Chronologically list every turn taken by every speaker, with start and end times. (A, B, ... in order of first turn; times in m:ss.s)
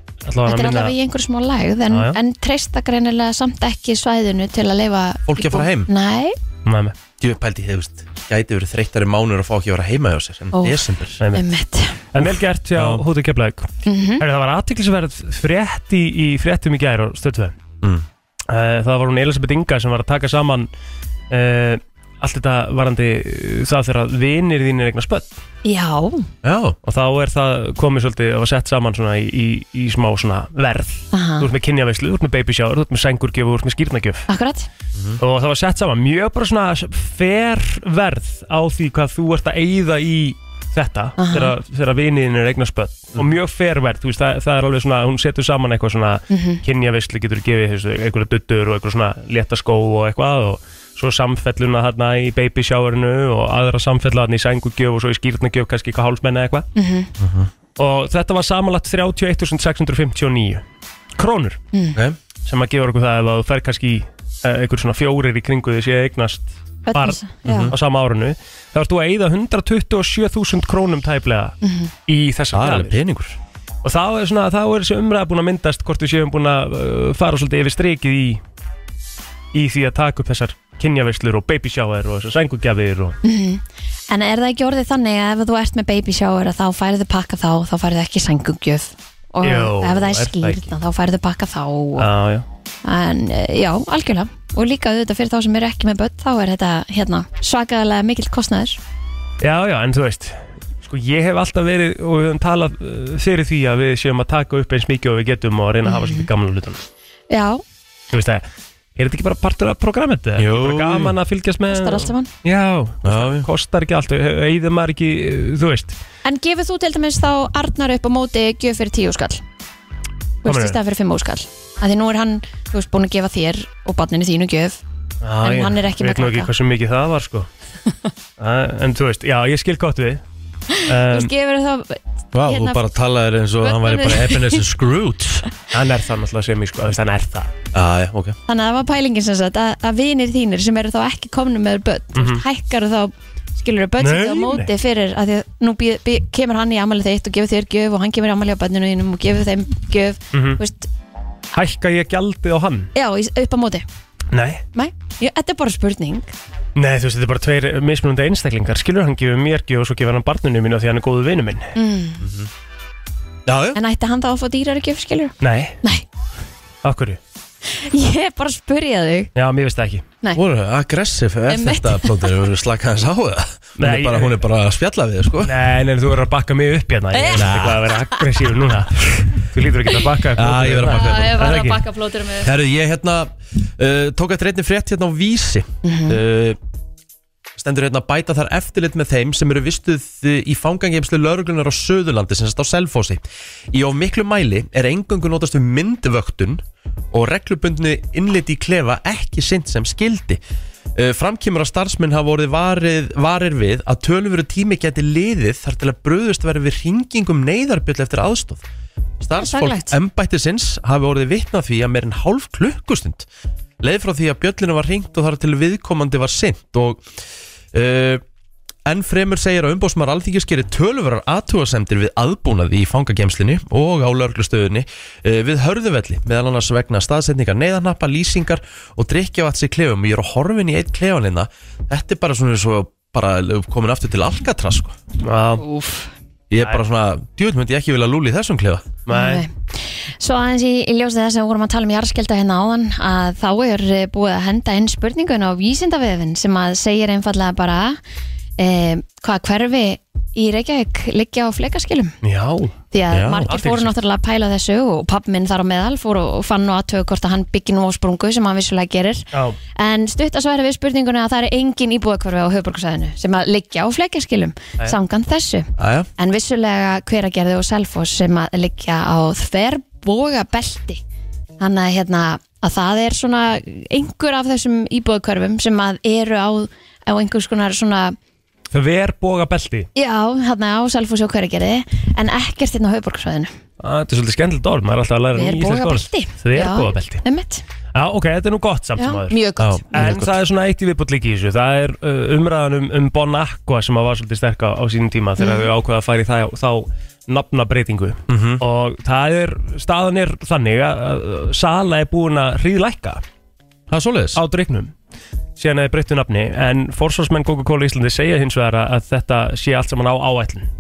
0:00.2-0:01.0 A
0:00.5-0:06.4 B
0:01.9-0:02.2 A
0:05.3-0:05.9 C
0:06.6-0:07.0 A
0:07.2-0:11.2 C
0:10.5-0:10.8 B
0:11.3-0:12.0 B
0:12.1-0:13.7 A
0:12.8-0:13.0 C
0:13.8-0:14.2 B
0:14.2-0:17.5 A
0:18.5-0:20.7 A
0:21.3-0:25.3 A
0:25.6-0:26.3 B
0:26.4-0:26.8 C
0:26.8-0:34.3 A
0:31.1-0:31.5 B
0:34.3-0:34.7 B
0:35.0-0:35.2 C
0:35.2-0:56.7 A
0:41.2-0:41.5 B
0:46.3-0:46.6 B
0:56.8-0:57.1 B
0:57.2-0:57.5 C
0:57.8-1:00.6 A
1:01.2-1:01.6 A
1:01.7-1:02.0 B
1:02.4-1:11.6 A
1:06.9-1:07.7 B
1:07.5-1:07.8 C
1:11.6-1:11.9 B
1:12.1-1:13.0 A
1:12.5-1:13.4 C
1:13.8-1:18.4 A
1:19.5-1:23.2 A
1:23.2-1:32.1 B
1:29.4-1:30.7 A
1:32.0-1:32.5 A
1:32.8-1:38.8 B
1:39.4-1:46.8 A
1:45.8-1:46.3 B
1:47.3-1:47.6 B
1:48.1-1:48.4 A
1:49.0-1:56.0 A
1:50.4-1:51.2 C
1:51.7-1:52.3 B
1:53.0-1:53.5 C
1:56.2-1:59.4 B
2:00.4-2:04.8 B
2:00.4-2:00.8 A
2:05.2-2:07.5 A
2:05.4-2:06.5 B
2:08.4-2:10.2 A
2:10.7-2:12.8 B
2:10.8-2:11.3 A
2:12.3-2:15.4 C
2:13.6-2:14.6 B
2:15.7-2:17.5 A
2:17.7-2:18.4 C
2:18.5-2:30.9 B
2:22.2-2:22.4 A
2:24.0-2:24.7 A
2:30.3-2:30.6 A
2:31.5-2:32.9 A
2:32.9-2:33.8 B
2:34.3-2:34.6 A
2:34.7-2:36.3 B
2:36.8-2:41.7 A
2:41.8-2:42.2 B
2:42.2-2:42.5 C
2:43.5-2:43.8 C
2:43.8-2:46.0 B
2:45.4-2:45.8 A
2:46.8-2:47.2 A
2:47.7-2:49.3 B
2:49.4-2:50.0 A
2:50.4-2:55.6 C
2:51.5-2:52.2 B
2:53.8-2:54.4 A
2:55.4-3:01.8 A
2:57.1-2:57.5 B
2:57.3-2:57.9 C
3:00.4-3:01.6 C
3:00.9-3:02.5 B
3:02.4-3:06.6 C
3:05.8-3:06.2 B
3:07.6-3:20.4 C
3:21.0-3:28.6 C
3:29.2-3:33.3 C
3:29.4-3:30.0 B
3:33.8-3:37.0 C
3:37.7-3:38.2 C
3:38.8-3:55.0 C
3:55.2-3:55.6 A
3:55.6-3:56.1 B
3:56.5-3:58.9 C
3:59.1-3:59.5 A
3:59.1-4:08.0 B
4:08.6-4:12.2 B
4:12.2-4:12.7 A
4:12.9-4:31.0 B
4:13.1-4:13.5 C
4:13.5-4:13.9 A
4:25.8-4:26.1 C
4:31.6-4:38.2 B
4:38.7-4:39.9 A
4:40.0-4:43.5 B
4:43.8-4:47.2 A
4:45.4-4:47.6 B
4:48.0-4:49.3 A
4:49.0-4:50.2 B
4:49.6-4:50.3 C
4:49.9-5:03.2 A
4:55.4-4:55.7 B
4:58.3-4:58.6 C
5:03.9-5:04.4 C
5:04.4-5:04.9 A
5:05.6-5:10.7 A